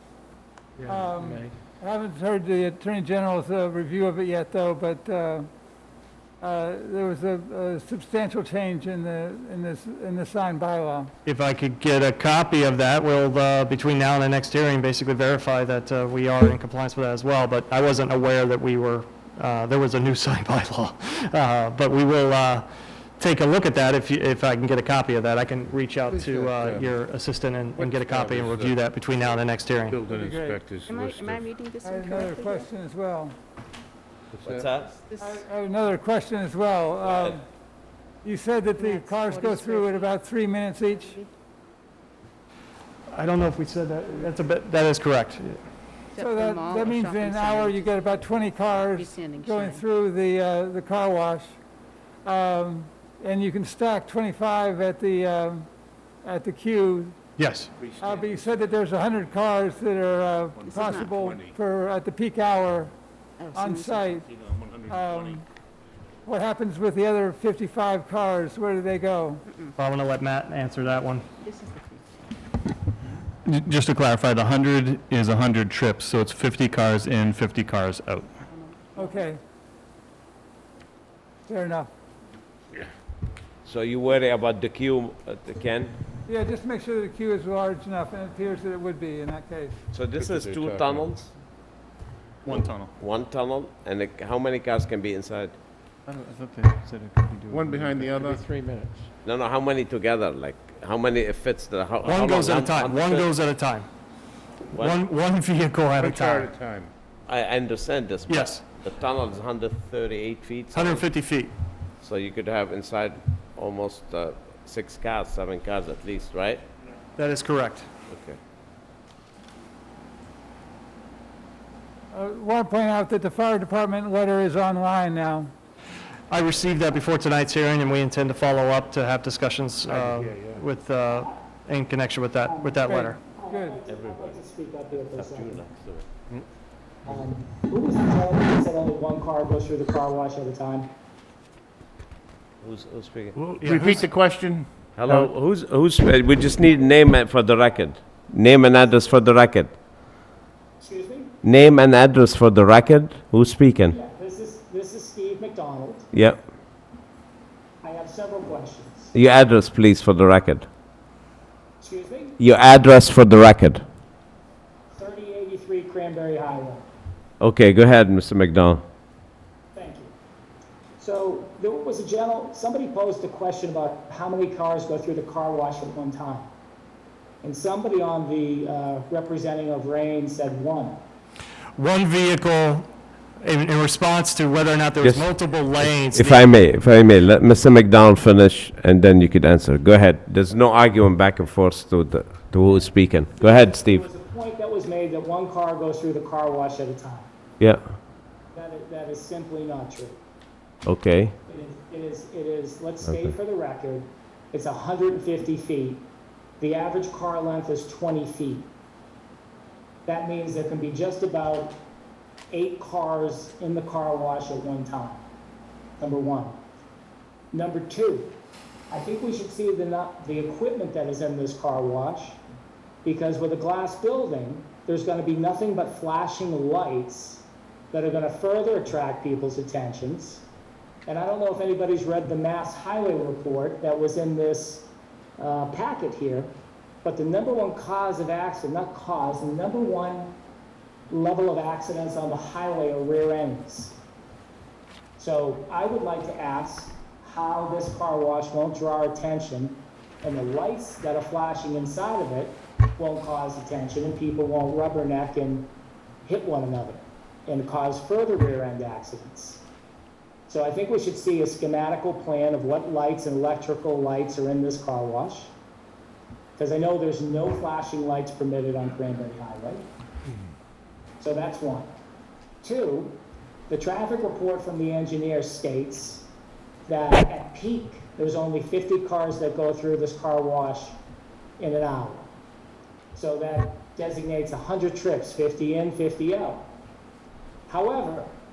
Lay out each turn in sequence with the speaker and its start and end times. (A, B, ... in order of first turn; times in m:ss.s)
0:00.8-0:01.5 A
0:00.9-0:05.5 B
0:06.4-0:11.1 B
0:11.2-0:22.7 C
0:23.2-0:30.0 C
0:26.1-0:27.0 D
0:27.7-0:28.8 D
0:29.9-0:31.5 D
0:30.1-0:30.6 B
0:30.9-0:32.7 E
0:31.8-0:33.4 B
0:34.3-0:34.8 D
0:34.4-0:35.0 F
0:35.0-0:35.4 E
0:35.2-0:37.4 B
0:38.2-0:41.2 B
0:38.7-0:40.2 E
0:40.8-0:41.3 E
0:43.1-0:45.6 C
0:46.1-0:49.8 E
0:46.2-0:51.6 B
0:52.2-0:55.7 B
0:56.2-0:57.2 B
0:57.4-0:57.7 C
0:57.8-0:58.7 D
0:58.0-1:02.9 B
1:00.6-1:01.3 E
1:00.7-1:01.5 D
1:03.4-1:04.3 E
1:03.5-1:04.2 B
1:04.4-1:05.4 D
1:04.9-1:05.4 B
1:06.2-1:09.4 B
1:09.5-1:09.8 E
1:09.8-1:11.2 C
1:11.4-1:12.3 E
1:13.5-1:18.3 G
1:18.5-1:19.2 E
1:19.0-1:19.4 B
1:21.5-1:21.9 B
1:23.6-1:26.0 F
1:26.2-1:29.8 B
1:29.9-1:31.3 F
1:30.2-1:31.2 D
1:32.5-1:35.6 F
1:32.6-1:32.9 D
1:36.1-1:37.5 A
1:37.5-1:38.5 D
1:38.3-1:39.0 A
1:39.2-1:43.3 F
1:42.0-1:43.9 C
1:44.7-1:46.5 C
1:44.7-1:45.0 F
1:46.0-1:46.9 D
1:47.3-1:51.0 F
1:48.3-1:48.6 C
1:50.7-1:51.5 C
1:52.0-1:56.6 F
1:57.2-1:57.9 C
1:58.1-1:58.4 F
2:02.1-2:05.5 B
2:06.3-2:13.2 C
2:09.9-2:10.6 D
2:12.5-2:15.6 H
2:12.9-2:13.8 B
2:13.9-2:14.4 F
2:14.9-2:16.1 F
2:17.0-2:20.9 H
2:22.6-2:23.4 F
2:23.4-2:25.3 D
2:25.0-2:29.8 F
2:30.8-2:31.4 H
2:31.4-2:34.0 F
2:33.9-2:36.1 H
2:36.1-2:36.4 F
2:37.8-2:39.1 H
2:39.1-2:40.6 F
2:41.8-2:42.4 H
2:42.4-2:43.8 F
2:44.9-2:46.8 H
2:47.4-2:48.8 F
2:49.7-2:50.1 H
2:51.0-2:56.5 H
2:57.4-3:01.0 H
3:01.8-3:06.5 C
3:05.0-3:05.3 F
3:05.8-3:14.1 F
3:12.6-3:17.3 H
3:17.6-3:17.9 F
3:18.5-3:20.2 H
3:20.8-3:21.3 F
3:21.4-3:26.1 H
3:23.0-3:23.3 F
3:26.6-3:28.7 H
3:30.0-3:31.8 H
3:32.5-3:35.2 H
3:36.0-3:36.6 H
3:37.5-3:38.4 H
3:38.9-3:42.4 H
3:43.0-3:50.4 H
3:51.0-3:56.5 H
3:57.0-4:00.4 H
4:01.1-4:04.0 H
4:05.2-4:15.7 H
4:16.2-4:19.6 H
4:20.5-4:25.5 H
4:26.6-4:29.9 H
4:31.2-4:31.9 H
4:32.6-4:36.3 H
4:36.9-4:41.0 H
4:41.6-4:42.3 H
4:43.1-4:46.7 H
4:47.7-4:48.3 H